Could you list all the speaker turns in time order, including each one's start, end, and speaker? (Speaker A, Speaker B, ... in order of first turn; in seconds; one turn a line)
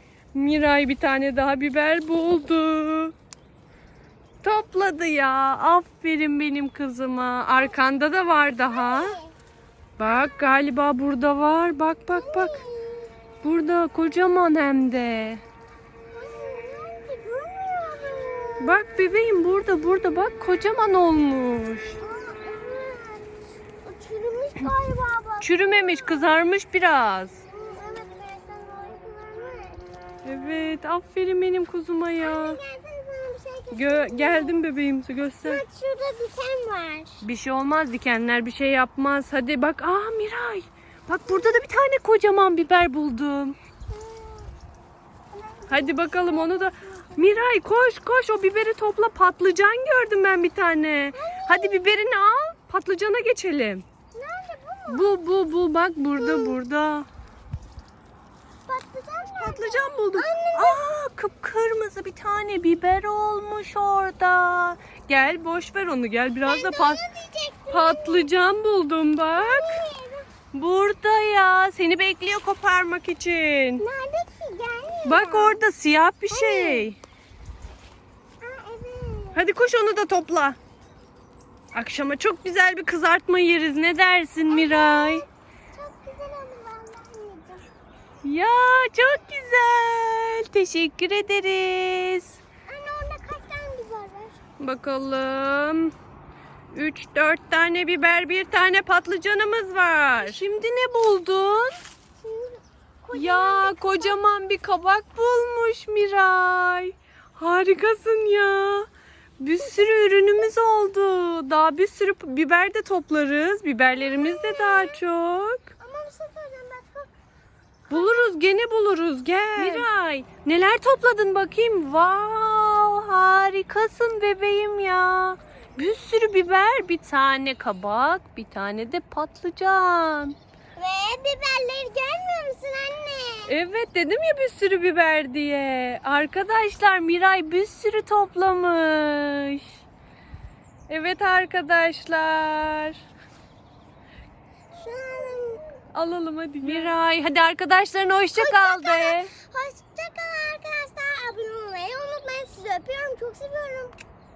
Speaker A: 0.3-3.1
Speaker A: 4.4-9.2
Speaker B: 8.7-9.4
Speaker A: 10.0-12.6
Speaker B: 12.1-13.2
Speaker A: 13.4-15.4
Speaker B: 16.1-18.7
Speaker A: 18.6-22.0
Speaker B: 22.0-26.3
Speaker A: 25.4-27.4
Speaker B: 27.5-29.8
Speaker A: 30.2-32.6
Speaker B: 32.2-34.6
Speaker A: 33.7-35.6
Speaker B: 35.4-37.2
Speaker A: 37.2-43.6
Speaker B: 41.3-41.7
Speaker B: 43.9-44.5
Speaker B: 45.3-47.5
Speaker A: 45.7-53.9
Speaker B: 51.1-51.9
Speaker B: 54.1-55.1
Speaker A: 54.9-57.1
Speaker B: 56.2-56.6
Speaker B: 58.7-60.8
Speaker A: 59.4-67.0
Speaker B: 66.5-68.3
Speaker A: 67.7-69.8
Speaker B: 69.3-70.3
Speaker A: 70.5-73.8
Speaker B: 73.8-75.7
Speaker A: 75.0-77.0
Speaker B: 76.3-76.9
Speaker B: 78.4-79.4
Speaker A: 79.3-80.6
Speaker A: 81.7-85.2
Speaker B: 84.5-87.7
Speaker A: 88.2-92.4
Speaker B: 92.7-94.4
Speaker A: 94.6-95.9
Speaker A: 96.7-101.8
Speaker B: 102.2-104.2
Speaker A: 103.1-108.9
Speaker A: 109.4-115.7
Speaker B: 114.0-115.0
Speaker B: 115.8-117.1
Speaker B: 117.9-118.3
Speaker A: 117.9-130.4
Speaker B: 119.5-119.9
Speaker B: 130.8-133.6
Speaker A: 133.5-139.8
Speaker A: 140.9-143.0
Speaker B: 144.7-145.6
Speaker A: 145.9-149.3
Speaker B: 148.3-154.0